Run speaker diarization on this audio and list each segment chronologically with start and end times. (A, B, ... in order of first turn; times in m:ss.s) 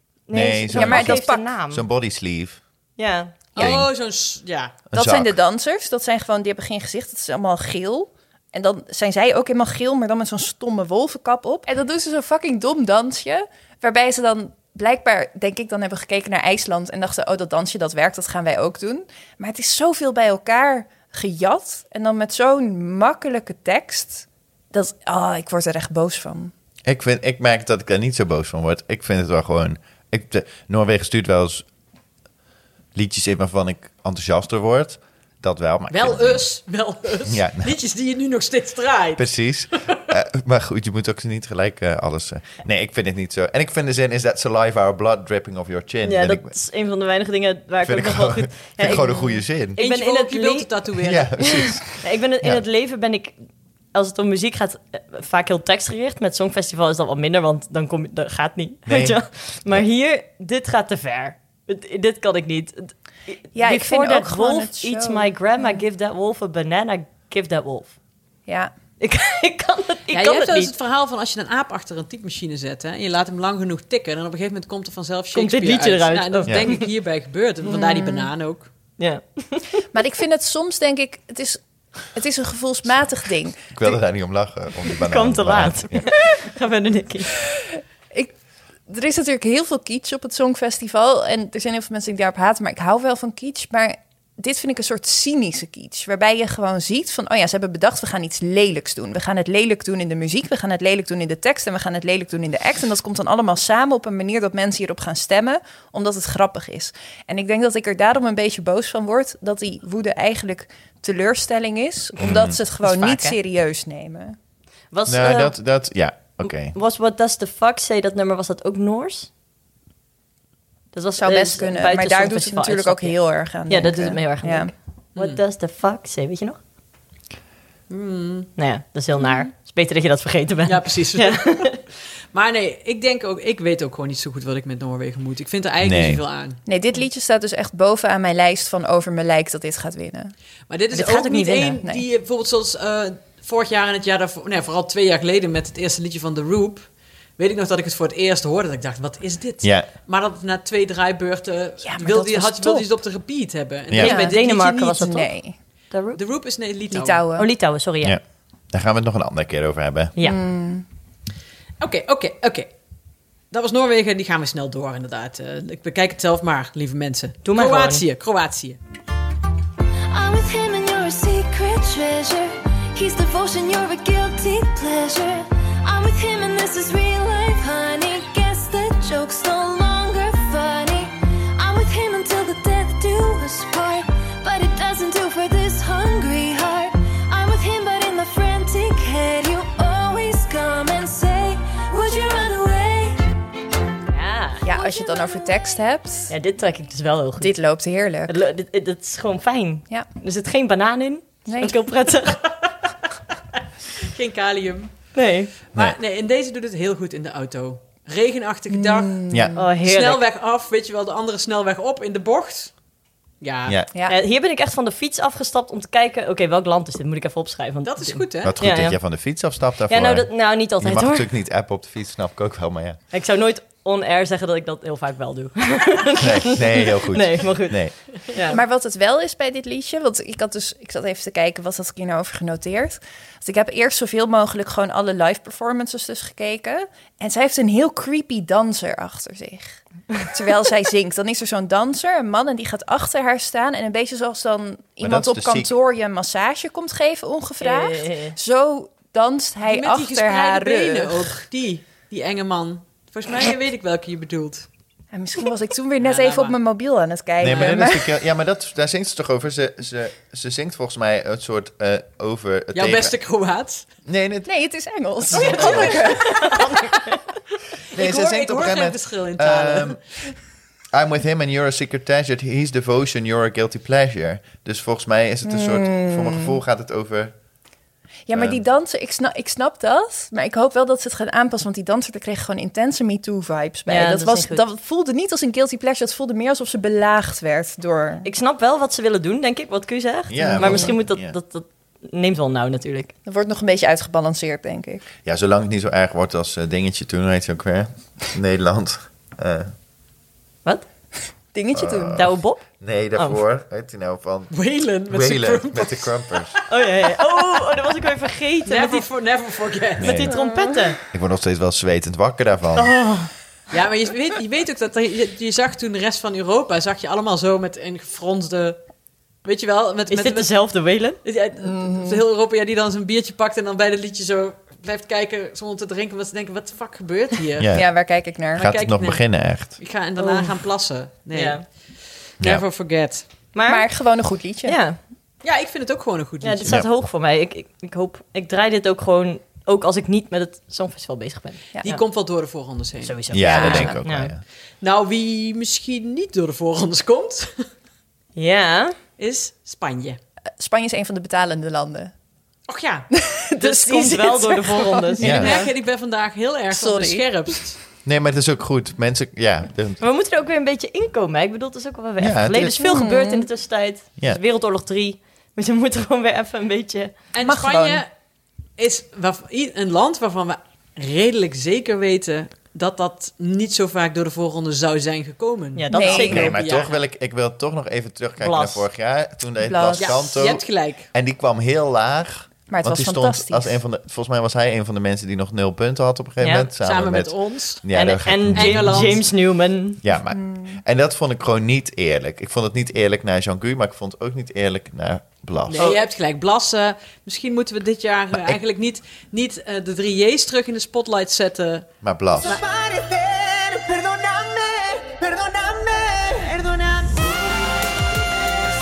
0:00.3-0:01.8 A
0:00.3-0:02.6 B
0:00.7-0:01.4 C
0:03.0-0:03.7 A
0:03.6-0:04.7 D
0:03.6-0:03.9 B
0:04.9-0:05.4 B
0:04.9-0:26.5 C
0:26.9-0:31.7 B
0:33.0-0:36.4 B
0:35.9-0:39.3 D
0:37.3-0:37.7 B
0:39.2-0:46.5 B
0:46.0-0:50.8 A
0:47.8-0:49.8 B
0:49.0-0:49.3 C
0:49.8-0:51.5 D
0:51.0-0:52.6 B
0:51.4-0:53.3 A
0:53.9-1:08.0 A
0:58.9-0:59.2 B
1:03.6-1:05.8 C
1:08.5-1:08.7 C
1:09.0-1:10.7 A
1:10.1-1:18.7 D
1:15.3-1:16.8 A
1:16.5-1:16.8 B
1:17.6-1:18.3 C
1:19.0-1:19.8 A
1:19.9-1:21.6 C
1:22.1-1:24.0 C
1:23.7-1:26.1 B
1:24.9-1:27.4 A
1:28.9-1:54.4 C
1:52.2-1:52.6 B
1:52.8-1:53.4 A
1:54.9-1:55.6 A
1:55.1-1:56.8 B
1:56.6-1:59.3 A
2:00.9-2:06.6 A
2:01.2-2:04.7 C
2:07.9-2:08.5 D
2:08.6-2:11.8 A
2:09.2-2:09.5 C
2:10.6-2:11.8 D
2:12.3-2:16.6 D
2:15.8-2:16.2 B
2:16.7-2:20.3 C
2:20.7-2:35.0 D
2:20.9-2:21.8 A
2:29.6-2:29.9 B
2:31.8-2:32.9 C
2:34.0-2:35.3 A
2:34.0-2:35.6 C
2:35.9-2:36.2 A
2:36.2-2:37.2 D
2:36.9-2:37.5 C
2:37.4-2:38.2 A
2:38.7-2:40.1 B
2:40.2-2:40.8 C
2:41.8-2:42.7 D
2:43.5-2:48.8 D
2:47.4-2:48.0 A
2:50.1-3:13.2 E
3:14.1-3:14.6 A
3:14.6-3:16.3 C
3:14.8-3:15.5 E
3:16.3-3:17.6 A
3:17.4-3:18.3 C
3:18.3-3:22.5 A
3:21.5-3:21.8 C
3:24.0-3:25.1 D
3:25.2-3:25.5 A
3:25.7-3:29.2 D
3:28.7-3:29.7 C
3:29.3-3:29.6 B
3:29.6-3:30.2 A
3:29.8-3:32.7 D
3:33.4-3:33.8 D
3:34.1-3:39.0 A
3:37.8-3:38.5 D
3:38.4-3:43.0 B
3:39.9-3:41.3 A
3:43.1-3:48.6 A
3:46.2-3:47.9 B
3:48.5-4:11.3 C
4:05.0-4:05.7 B
4:07.6-4:08.4 A
4:09.6-4:14.7 D
4:15.1-4:18.1 C
4:16.0-4:16.6 D
4:17.4-4:23.1 B
4:17.4-4:17.8 D
4:22.8-4:23.9 D
4:24.1-4:24.5 B
4:24.5-4:27.0 C
4:25.3-4:26.0 B
4:25.3-4:26.5 D
4:25.3-4:27.2 A
4:27.9-4:30.0 D
4:27.9-4:30.0 B
4:30.9-4:37.3 B
4:35.4-4:36.5 C
4:38.3-4:48.3 C
4:38.4-4:38.6 B
4:43.9-4:44.6 A
4:48.2-4:53.1 A
4:50.3-4:51.4 B
4:50.4-4:50.9 C
4:53.3-4:55.0 C
4:55.2-4:59.7 B
5:01.5-5:02.3 C
5:01.7-5:02.3 B
5:02.1-5:02.6 A
5:02.8-5:04.5 B
5:03.2-5:03.4 A
5:04.5-5:06.6 D
5:05.1-5:06.6 B
5:06.7-5:09.1 A
5:08.7-5:10.1 D
5:10.0-5:11.0 A
5:10.0-5:10.3 B
5:10.3-5:10.8 C
5:11.1-5:13.0 B
5:12.8-5:13.3 A
5:13.7-5:18.8 D
5:19.4-5:20.5 D
5:20.1-5:21.2 A
5:21.2-5:27.7 D
5:21.6-5:22.2 C
5:27.6-5:28.0 B
5:27.7-5:28.7 C
5:28.6-5:29.8 B
5:28.6-5:31.9 D
5:30.2-5:30.5 C
5:31.3-5:31.6 A
5:32.4-5:33.3 D
5:33.5-5:33.9 A
5:33.7-5:34.8 C
5:34.7-5:35.0 A
5:35.4-5:36.8 D
5:36.4-5:41.7 A
5:41.7-5:42.0 C
5:41.8-5:43.2 D
5:43.0-5:44.3 A
5:43.3-5:44.4 B
5:43.4-5:44.0 C
5:44.8-5:47.7 D
5:48.4-5:49.0 A
5:49.2-5:50.2 D
5:50.6-5:52.1 C
5:52.7-5:53.1 D
5:53.1-5:55.6 C
5:53.6-5:55.7 A
5:55.2-5:55.5 B
5:55.2-5:57.8 D
5:56.7-5:57.6 C
5:58.0-6:00.0 B
6:00.0-6:07.1 A
6:02.2-6:02.8 B
6:02.7-6:03.5 C
6:07.3-6:08.1 D
6:07.4-6:08.0 C
6:08.8-6:17.0 D
6:15.8-6:16.6 A
6:15.9-6:16.5 C
6:16.2-6:29.2 B
6:18.4-6:18.9 A
6:19.6-6:20.5 C
6:20.0-6:21.1 D
6:22.7-6:23.8 C
6:26.4-6:26.7 A
6:26.8-6:27.8 D
6:27.9-6:30.0 A
6:28.5-6:29.2 D
6:30.0-6:36.0 B
6:30.3-6:30.8 C
6:35.7-6:41.9 D
6:42.0-6:42.6 B
6:42.4-6:47.8 F